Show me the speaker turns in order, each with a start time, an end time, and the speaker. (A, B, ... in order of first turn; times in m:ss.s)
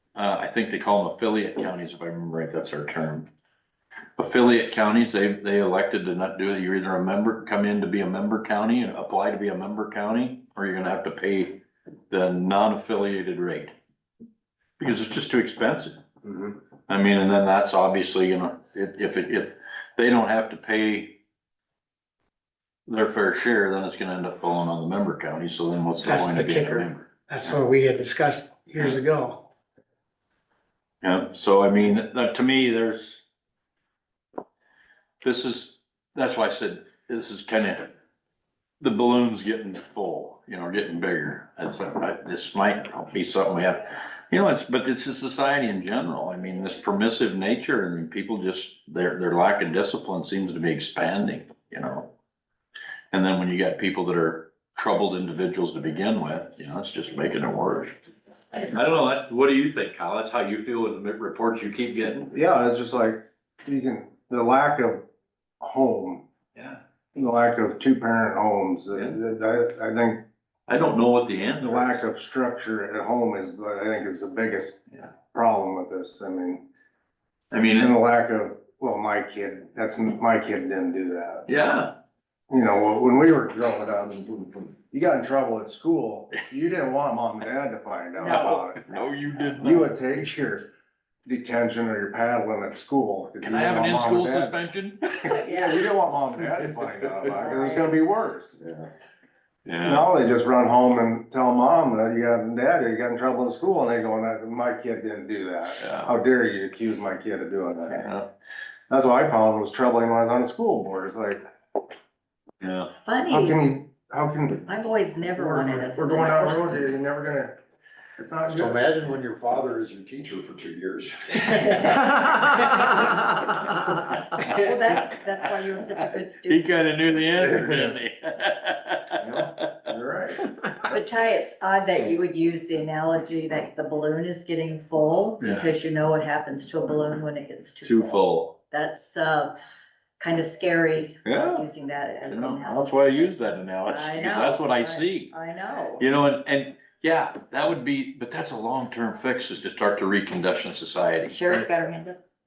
0:00.2-0:03.3 A
0:04.2-0:13.7 A
0:14.8-0:16.0 A
0:16.2-0:16.6 B
0:16.9-0:21.2 A
0:22.9-0:27.5 A
0:26.0-0:29.5 C
0:31.0-0:33.2 A
0:35.2-0:37.9 A
0:38.8-0:52.1 A
0:53.1-0:57.9 A
0:58.6-1:02.3 A
1:02.3-1:05.0 B
1:05.6-1:06.2 B
1:06.6-1:06.8 A
1:07.2-1:10.2 B
1:10.7-1:12.0 A
1:11.6-1:16.6 B
1:17.5-1:17.9 A
1:17.8-1:21.5 B
1:21.5-1:21.9 A
1:22.5-1:28.8 B
1:28.2-1:28.4 D
1:28.3-1:29.9 A
1:29.6-1:30.7 B
1:31.2-1:34.5 B
1:33.4-1:35.1 A
1:35.2-1:38.6 B
1:35.4-1:35.8 D
1:37.3-1:38.0 D
1:39.7-1:40.1 A
1:39.8-1:48.1 B
1:45.8-1:46.1 A
1:47.9-1:48.3 A
1:48.9-1:51.4 B
1:52.6-1:52.9 A
1:53.1-1:53.6 D
1:53.3-1:54.7 B
1:54.7-1:56.7 D
1:55.3-1:57.6 B
1:58.2-1:58.8 B
1:58.5-2:04.1 E
2:01.5-2:02.0 D
2:04.4-2:06.7 D
2:04.5-2:05.0 A
2:06.4-2:09.9 A
2:09.2-2:10.4 B
2:10.9-2:19.6 D
2:15.4-2:15.7 A
2:17.8-2:18.6 A
2:20.2-2:23.0 D
2:21.2-2:21.7 A
2:22.3-2:25.3 A
2:23.8-2:26.0 D
2:26.0-2:31.7 A
2:31.3-2:32.2 D